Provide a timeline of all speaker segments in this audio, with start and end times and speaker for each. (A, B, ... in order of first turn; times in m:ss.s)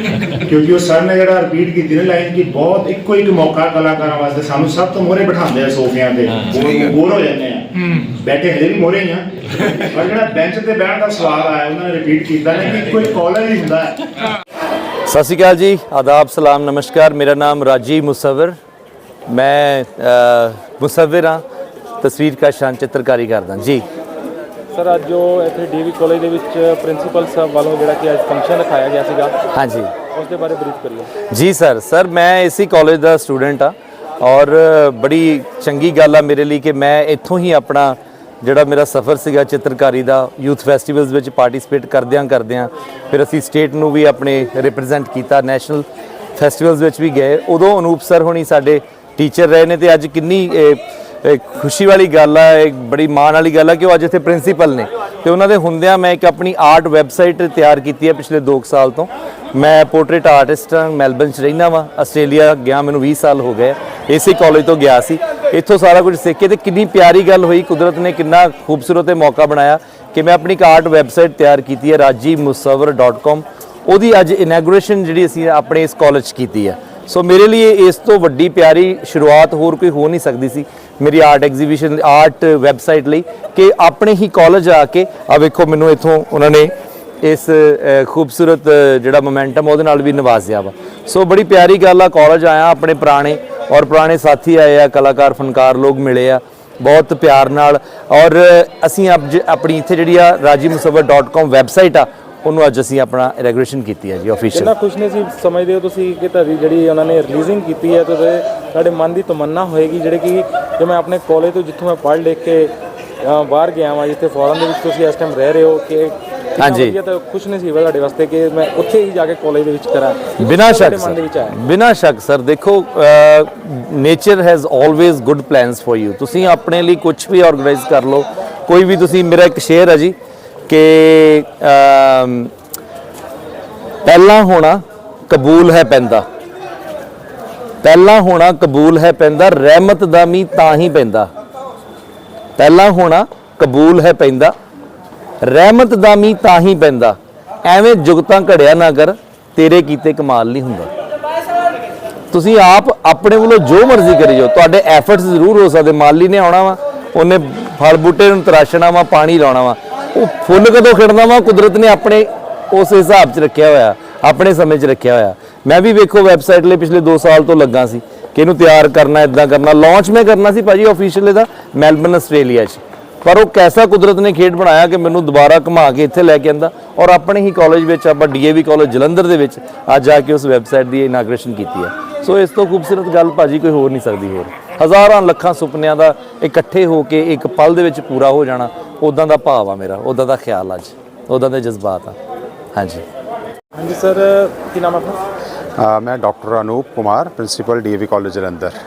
0:00.4-0:14.0 A
0:15.1-0:18.6 B
0:19.3-0:21.4 B
0:22.0-0:23.8 B
0:24.7-0:29.4 C
0:29.5-0:29.9 B
0:30.1-0:31.1 C
0:31.3-1:44.7 B
1:44.5-1:52.7 C
1:53.2-2:01.6 C
1:56.6-1:57.0 B
2:00.4-2:10.1 B
2:10.7-2:12.5 B
2:14.0-2:16.2 B
2:17.8-2:21.3 B
2:22.6-2:24.5 B
2:25.4-2:30.9 B
2:32.3-3:12.2 B
3:12.7-3:13.0 B
3:13.7-3:15.2 C
3:15.8-3:18.7 D